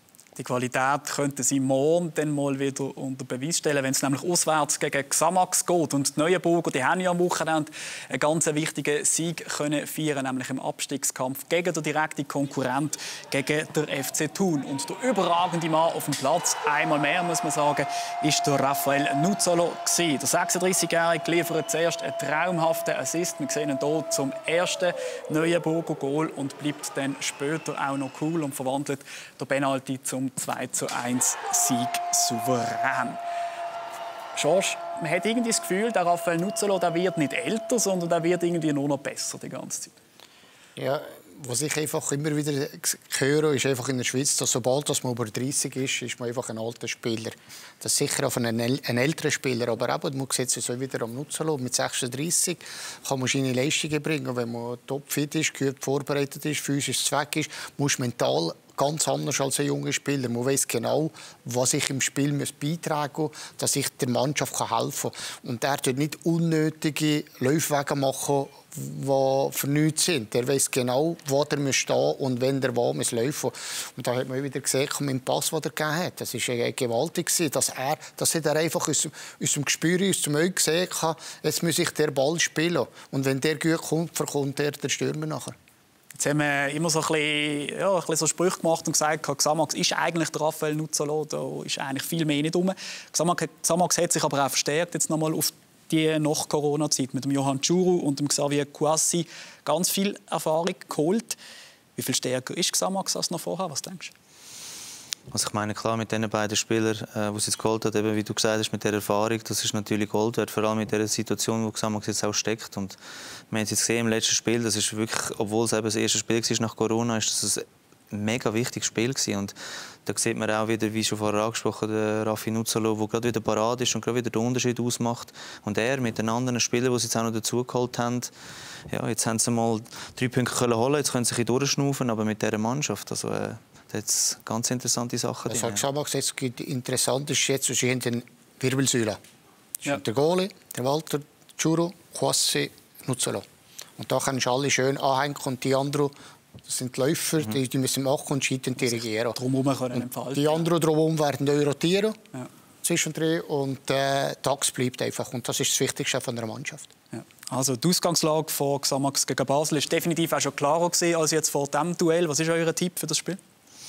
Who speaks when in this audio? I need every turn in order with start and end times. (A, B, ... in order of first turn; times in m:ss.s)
0:00.4-0:33.2 A
0:34.4-0:40.0 A
0:40.8-1:25.6 B
1:26.2-1:41.4 A
1:42.0-1:44.1 A
1:45.3-1:53.0 C
1:53.5-2:08.3 C
2:08.9-2:15.8 C
2:15.5-2:19.2 B
2:19.8-2:23.5 B
2:24.0-2:26.1 B
2:26.6-2:29.4 B
2:28.9-2:30.7 A
2:29.9-2:32.2 B
2:32.8-2:36.9 B
2:37.1-2:43.4 A